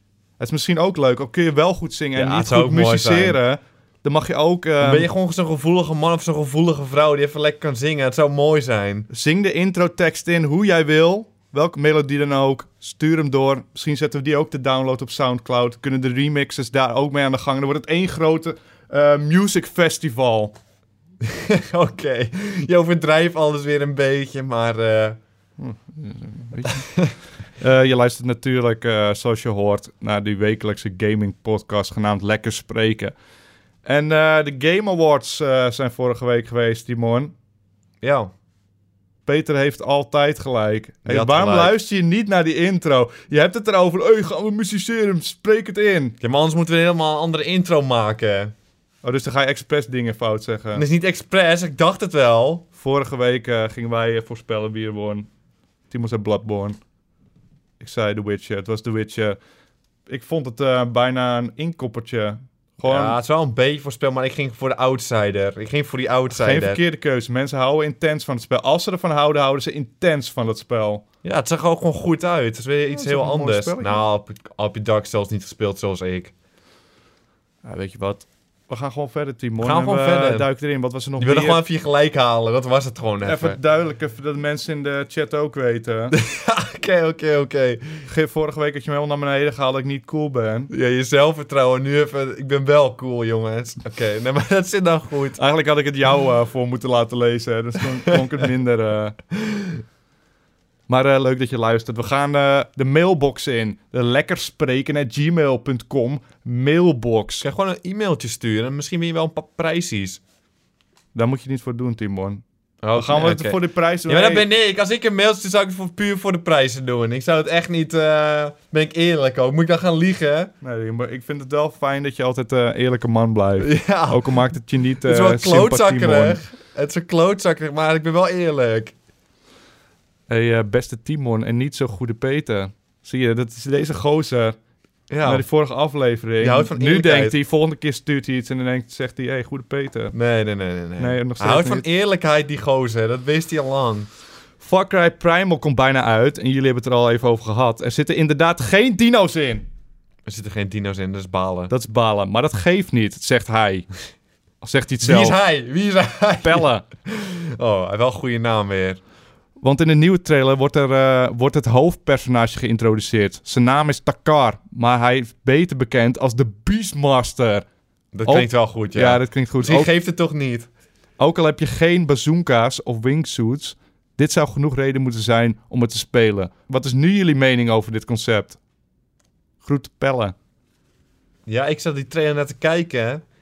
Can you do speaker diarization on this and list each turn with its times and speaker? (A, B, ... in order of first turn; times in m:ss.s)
0:00.4-0:05.1 A
0:02.2-0:03.4 B
0:04.8-0:09.1 B
0:09.1-0:20.5 A
0:21.2-0:25.2 B
0:25.6-0:26.9 A
0:26.6-0:27.2 B
0:27.6-0:33.2 A
0:33.8-0:37.3 A
0:38.0-0:38.3 B
0:39.3-0:46.2 A
0:41.0-0:41.8 B
0:46.2-0:48.5 B
0:49.0-0:50.8 A
0:50.8-0:52.6 B
0:52.8-0:55.3 A
0:55.9-0:56.8 A
0:57.8-0:59.4 A
1:00.1-1:03.2 A
1:02.8-1:06.8 B
1:06.3-1:11.0 A
1:11.2-1:16.3 B
1:12.9-1:14.0 A
1:17.6-1:21.6 A
1:19.6-1:20.5 B
1:21.2-1:23.6 B
1:23.2-1:26.2 A
1:26.1-1:27.8 B
1:28.1-1:30.7 A
1:30.7-1:35.4 B
1:35.4-1:39.2 A
1:39.5-1:39.7 B
1:40.9-1:47.4 A
1:47.4-1:50.2 B
1:51.2-1:52.4 A
1:52.8-2:00.5 B
1:52.9-1:54.5 A
2:00.6-2:06.4 A
2:03.6-2:04.4 B
2:05.0-2:08.9 B
2:10.3-2:14.6 A
2:15.1-2:15.4 B
2:15.2-2:20.1 A
2:16.4-2:17.4 B
2:20.1-2:24.1 B
2:21.0-2:21.8 A
2:24.6-2:29.7 A
2:30.2-2:31.7 B
2:31.7-2:33.9 A
2:34.6-2:35.4 A
2:35.0-2:39.0 B
2:36.4-2:36.8 A
2:39.6-2:47.7 A
2:48.1-2:50.7 B
2:48.2-2:49.9 A
2:51.2-2:58.6 A
2:59.6-3:00.4 A
3:01.5-3:03.2 B